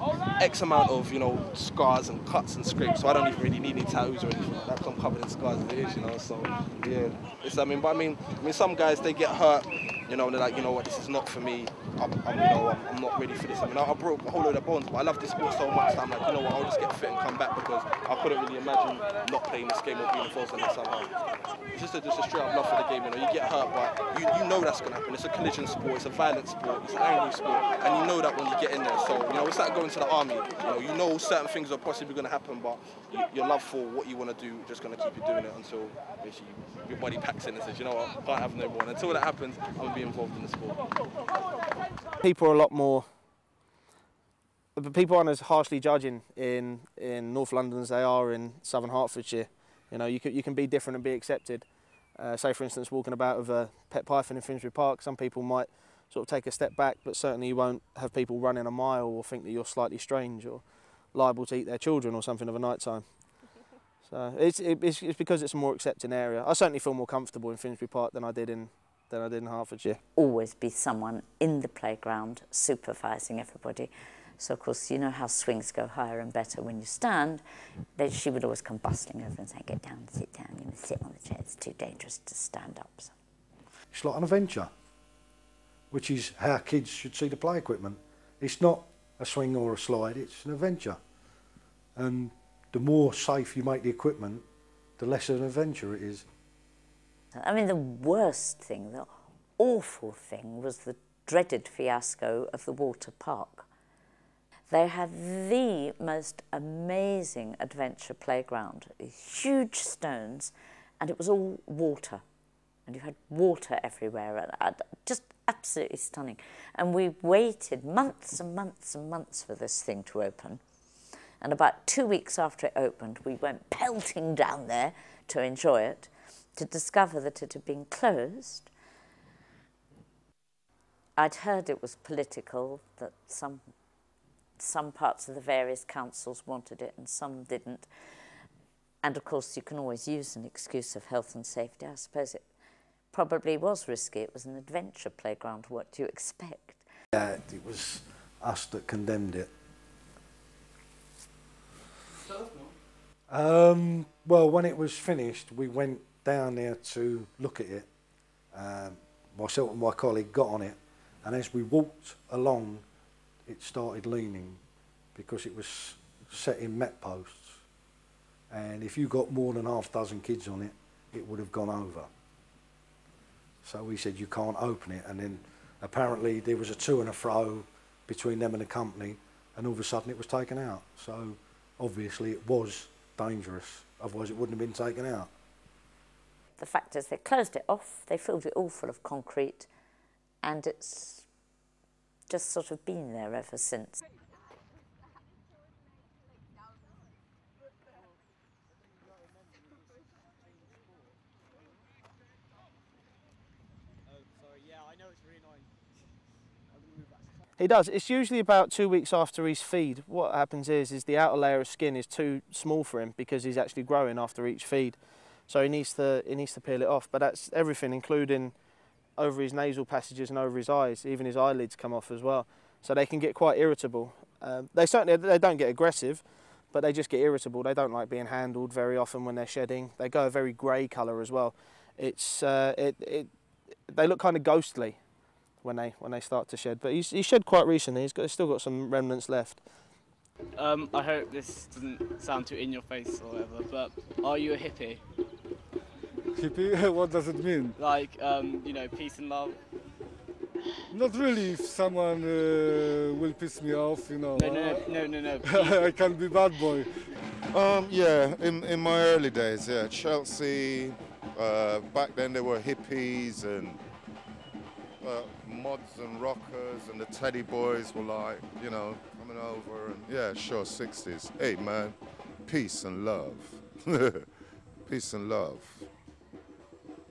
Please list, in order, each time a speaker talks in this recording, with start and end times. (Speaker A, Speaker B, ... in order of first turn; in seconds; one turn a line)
Speaker A: 0.3-21.1
Speaker A: 21.7-40.8
Speaker B: 42.2-43.2
Speaker B: 44.8-63.3
Speaker B: 64.0-70.0
Speaker C: 70.1-77.4
Speaker C: 78.0-83.1
Speaker D: 83.9-84.7
Speaker D: 85.9-91.0
Speaker D: 92.0-94.4
Speaker D: 95.0-96.2
Speaker C: 97.3-103.7
Speaker C: 104.7-112.2
Speaker C: 112.8-120.6
Speaker C: 121.4-128.7
Speaker C: 131.2-133.7
Speaker C: 134.6-137.9
Speaker C: 139.0-142.5
Speaker C: 143.1-146.8
Speaker D: 147.1-149.5
Speaker D: 153.3-157.9
Speaker D: 158.5-162.8
Speaker D: 163.4-164.6
Speaker D: 165.1-167.6
Speaker D: 168.5-172.1
Speaker D: 173.6-185.3
Speaker C: 186.6-189.7
Speaker C: 190.4-191.2
Speaker C: 192.3-193.9
Speaker E: 198.7-201.8
Speaker E: 204.0-205.7
Speaker E: 206.7-207.5
Speaker B: 207.6-218.6
Speaker B: 219.2-235.0
Speaker B: 235.6-239.9
Speaker F: 240.6-245.0
Speaker E: 246.3-247.8
Speaker F: 247.8-249.6
Speaker E: 250.9-254.9
Speaker F: 254.3-255.9
Speaker E: 255.4-257.0
Speaker G: 257.5-263.8
Speaker G: 265.0-274.3
Speaker G: 274.9-275.9